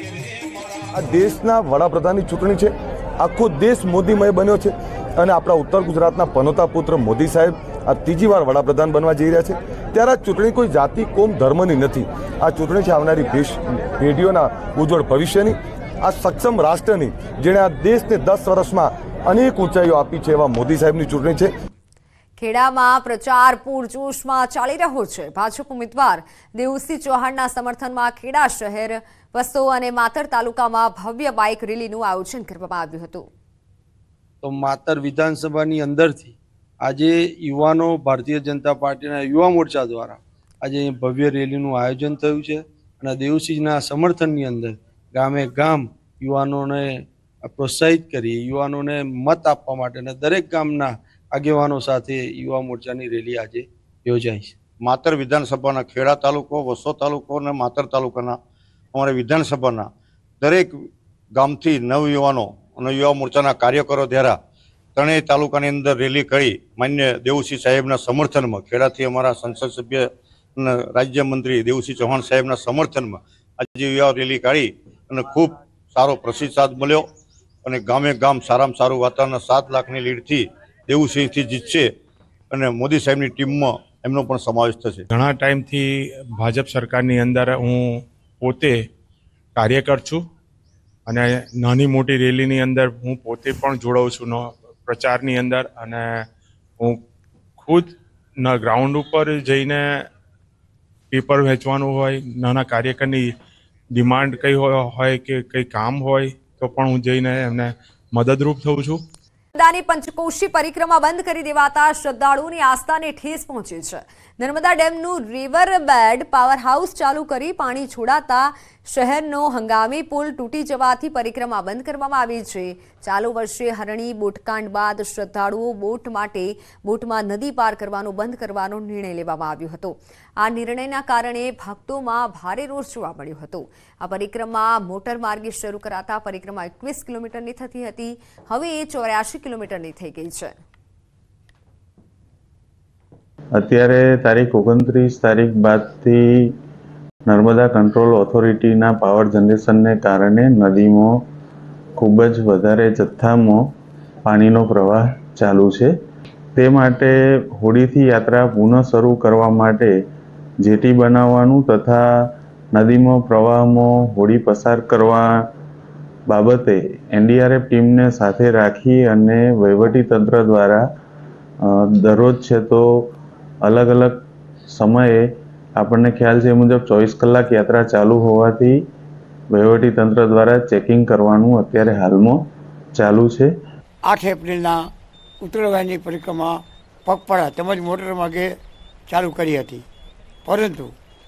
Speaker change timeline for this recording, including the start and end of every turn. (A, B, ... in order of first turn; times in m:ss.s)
0:00.9-0:21.5 A
0:22.4-0:33.2 B
0:34.4-0:54.6 C
0:54.8-0:58.4 D
0:58.9-0:59.9 D
1:00.4-1:00.8 D
1:01.4-1:04.4 D
1:05.0-1:17.1 D
1:17.6-1:21.9 D
1:22.5-1:25.0 D
1:25.1-1:28.8 E
1:29.6-1:30.2 E
1:31.1-1:36.2 E
1:37.6-1:40.1 E
1:41.1-1:43.3 E
1:43.9-1:49.0 E
1:49.6-2:20.5 B
2:23.6-2:26.4 F
2:27.3-2:31.1 F
2:32.0-2:33.6 F
2:34.3-2:35.9 F
2:36.6-2:39.9 F
2:40.6-2:42.1 F
2:42.8-2:45.4 F
2:46.3-2:50.8 F
2:51.6-2:52.8 F
2:53.6-2:54.2 F
2:54.7-2:55.2 F
2:55.8-2:58.8 F
2:59.5-3:02.4 F
3:03.0-3:03.5 F
3:04.1-3:04.8 G
3:05.4-3:06.5 G
3:07.1-3:08.5 G
3:09.1-3:09.8 G
3:10.5-3:10.9 G